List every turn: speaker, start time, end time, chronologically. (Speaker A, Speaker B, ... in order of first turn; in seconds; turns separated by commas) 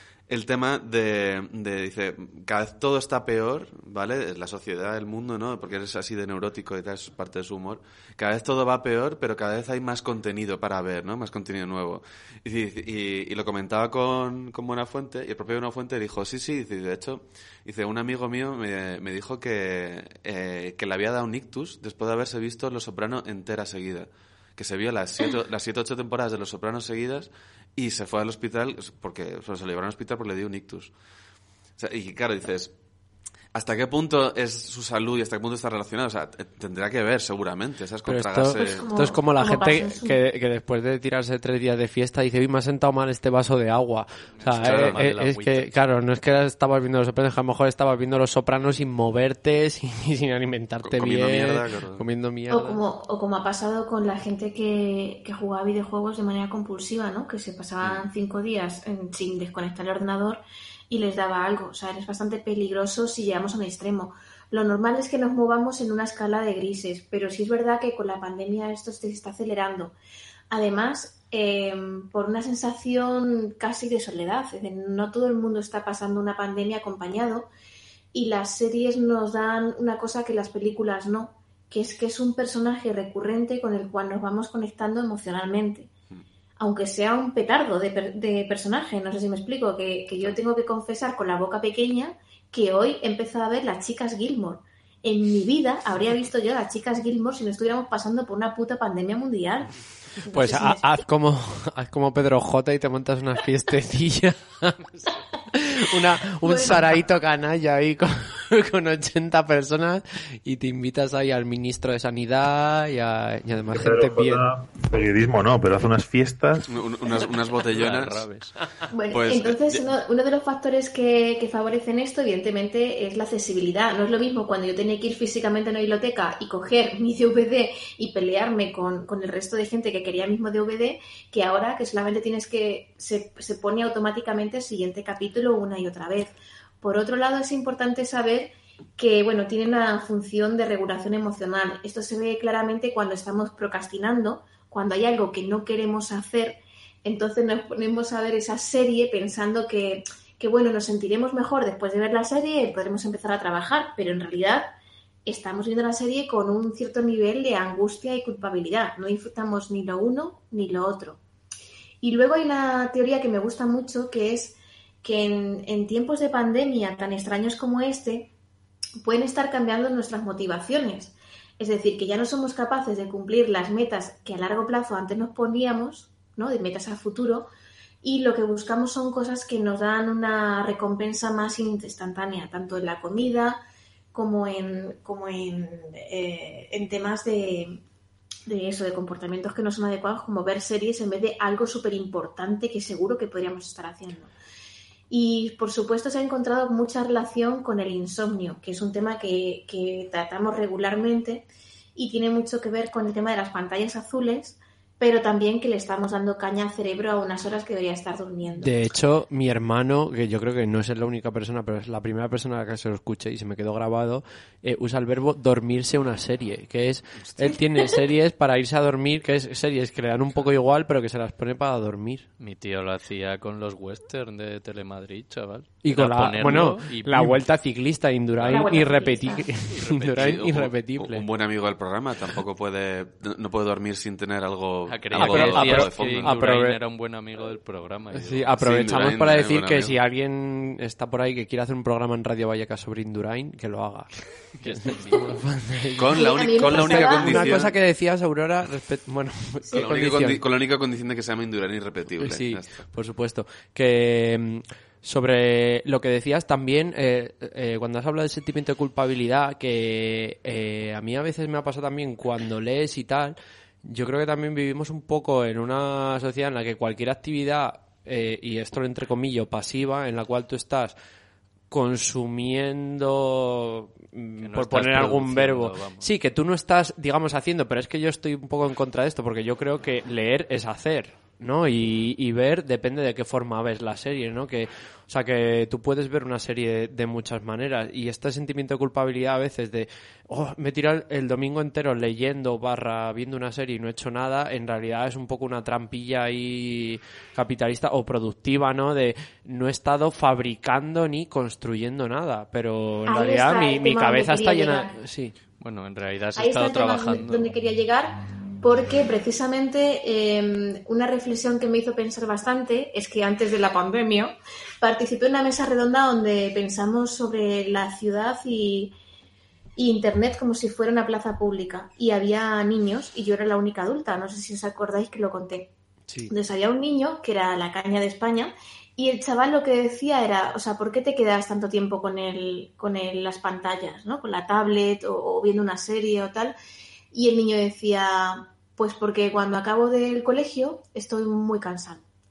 Speaker A: 0.3-30.9, Speaker A: 31.8-32.7, Speaker A: 33.5-38.9, Speaker B: 38.1-52.8, Speaker C: 38.6-40.2, Speaker D: 44.3-45.7, Speaker A: 44.6-45.0, Speaker A: 50.9-52.0, Speaker C: 52.5-70.0, Speaker C: 70.5-77.5, Speaker C: 78.1-85.9, Speaker C: 86.6-99.7, Speaker C: 100.2-101.0, Speaker B: 100.3-104.9, Speaker B: 105.5-114.4, Speaker C: 106.4-106.9, Speaker E: 113.7-116.7, Speaker A: 116.7-118.2, Speaker D: 117.1-118.5, Speaker C: 118.9-154.7, Speaker A: 119.1-120.0, Speaker C: 155.3-161.2, Speaker C: 162.0-168.3, Speaker C: 169.0-177.5, Speaker C: 178.0-183.6, Speaker C: 184.1-187.8, Speaker C: 188.5-194.3, Speaker C: 195.1-208.7, Speaker B: 208.6-222.3, Speaker D: 222.4-227.4, Speaker B: 225.8-231.2, Speaker D: 228.4-229.1, Speaker C: 228.5-229.5, Speaker D: 229.6-230.4, Speaker A: 230.0-236.3, Speaker D: 234.9-238.6, Speaker B: 235.1-236.8, Speaker B: 238.1-244.1, Speaker A: 238.6-240.0, Speaker D: 244.6-245.4, Speaker B: 244.7-250.4, Speaker A: 246.0-247.8, Speaker C: 246.2-247.5, Speaker A: 249.7-252.8, Speaker B: 252.2-270.9, Speaker B: 271.7-305.3, Speaker D: 274.4-276.1, Speaker C: 303.1-305.0, Speaker D: 305.6-307.5, Speaker C: 306.4-318.9, Speaker C: 319.8-325.7, Speaker C: 326.3-336.6, Speaker C: 337.1-342.0